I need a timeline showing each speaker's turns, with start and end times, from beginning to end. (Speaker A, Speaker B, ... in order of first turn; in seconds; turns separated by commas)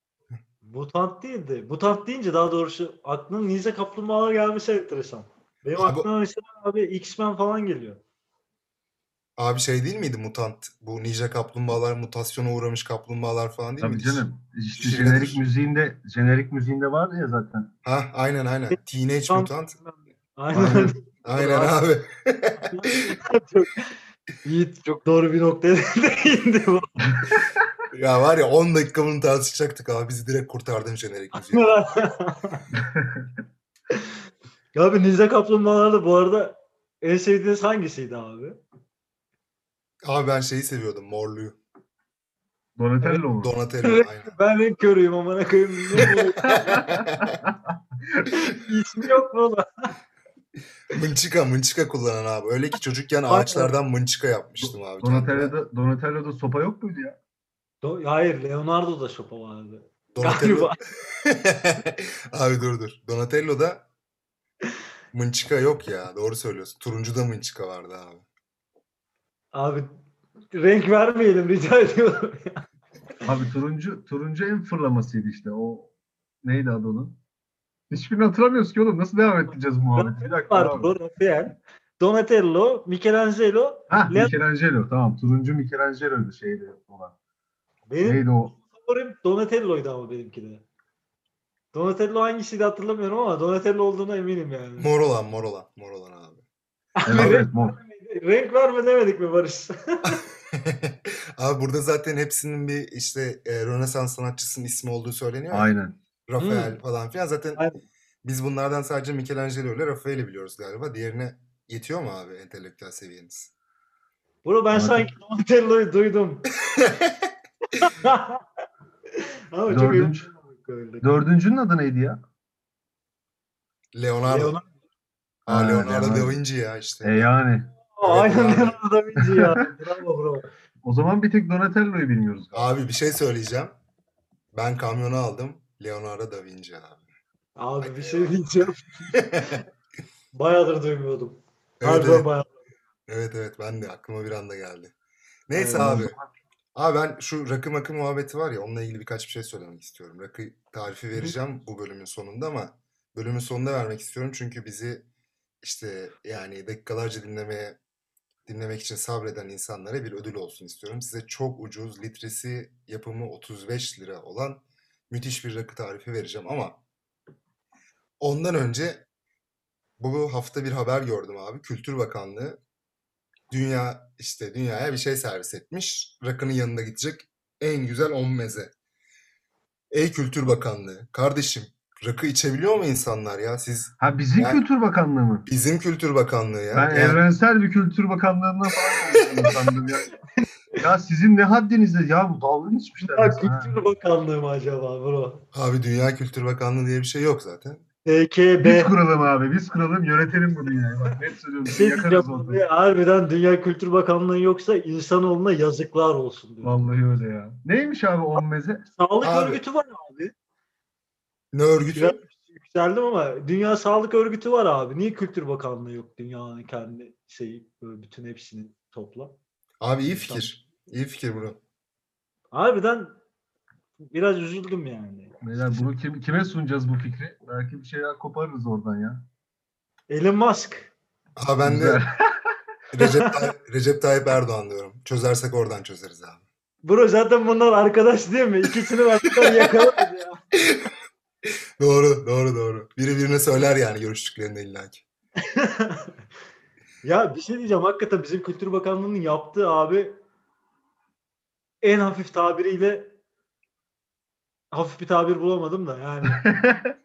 Speaker A: 0.6-8.0, Speaker B: 5.8-6.1, Speaker B: 9.4-14.2, Speaker C: 13.8-17.7, Speaker B: 14.8-15.4, Speaker B: 17.8-19.8, Speaker A: 19.3-21.8, Speaker C: 20.5-20.9, Speaker B: 21.2-22.7, Speaker A: 22.7-23.9, Speaker A: 24.4-27.4, Speaker B: 27.9-31.8, Speaker A: 31.4-32.7, Speaker C: 32.8-33.3, Speaker A: 34.8-38.6, Speaker B: 40.0-41.6, Speaker C: 42.8-43.5, Speaker B: 43.4-44.4, Speaker A: 43.8-46.4, Speaker B: 46.0-47.3, Speaker C: 46.5-48.3, Speaker A: 48.3-49.7, Speaker B: 50.9-55.5, Speaker A: 53.3-53.7, Speaker C: 54.6-57.2, Speaker A: 57.8-60.8, Speaker B: 60.1-63.9, Speaker B: 65.1-68.2, Speaker A: 69.5-70.0, Speaker A: 70.5-72.6, Speaker C: 73.2-75.9, Speaker C: 76.4-77.2, Speaker C: 77.9-80.9, Speaker A: 80.0-84.3, Speaker C: 83.9-87.1, Speaker A: 87.9-90.6, Speaker C: 88.0-88.6, Speaker A: 91.7-94.9, Speaker B: 94.8-96.4, Speaker A: 97.0-100.2, Speaker C: 97.1-97.8, Speaker B: 100.5-105.7, Speaker C: 105.5-105.9, Speaker B: 106.3-107.6, Speaker A: 106.4-106.8, Speaker B: 108.2-113.5, Speaker A: 114.4-116.5, Speaker C: 114.7-115.1, Speaker B: 116.8-117.2, Speaker A: 117.8-118.4, Speaker A: 119.5-121.1, Speaker C: 119.7-120.3, Speaker C: 121.0-122.2, Speaker B: 123.9-124.6, Speaker A: 124.2-124.7, Speaker B: 125.5-127.3, Speaker C: 125.5-126.4, Speaker C: 127.0-127.7, Speaker A: 127.9-130.4, Speaker B: 128.0-128.8, Speaker C: 129.2-129.5, Speaker C: 130.8-132.7, Speaker B: 132.5-133.8, Speaker B: 134.5-137.0, Speaker A: 137.6-139.6, Speaker B: 137.8-138.3, Speaker B: 139.2-139.6, Speaker A: 140.3-142.5, Speaker B: 141.8-142.3, Speaker B: 143.1-144.9, Speaker B: 145.5-146.1, Speaker A: 145.6-146.1, Speaker C: 145.7-146.2, Speaker B: 146.8-155.1, Speaker B: 155.6-157.8, Speaker B: 158.4-166.8, Speaker B: 168.2-169.1, Speaker B: 170.0-172.6, Speaker B: 173.5-178.7, Speaker B: 179.9-184.6, Speaker C: 184.0-185.5, Speaker B: 185.5-187.2, Speaker C: 186.7-190.1, Speaker C: 190.8-193.8, Speaker A: 193.1-195.4, Speaker B: 195.5-197.8, Speaker A: 198.1-198.9, Speaker C: 198.6-202.6, Speaker A: 201.7-206.9, Speaker C: 206.6-208.8, Speaker A: 208.9-210.3, Speaker B: 209.2-209.6, Speaker B: 211.5-212.2, Speaker A: 211.9-219.4, Speaker B: 219.8-221.6, Speaker A: 220.2-220.5, Speaker A: 222.5-223.2, Speaker A: 224.1-225.9, Speaker C: 225.4-229.2, Speaker A: 230.1-230.9, Speaker B: 231.4-232.0, Speaker C: 231.6-232.5, Speaker B: 232.9-236.4, Speaker A: 233.0-233.4, Speaker A: 236.8-240.4, Speaker B: 241.8-245.0, Speaker A: 245.5-246.1, Speaker A: 247.0-250.2, Speaker A: 251.8-253.1, Speaker A: 254.7-256.4, Speaker C: 256.3-256.9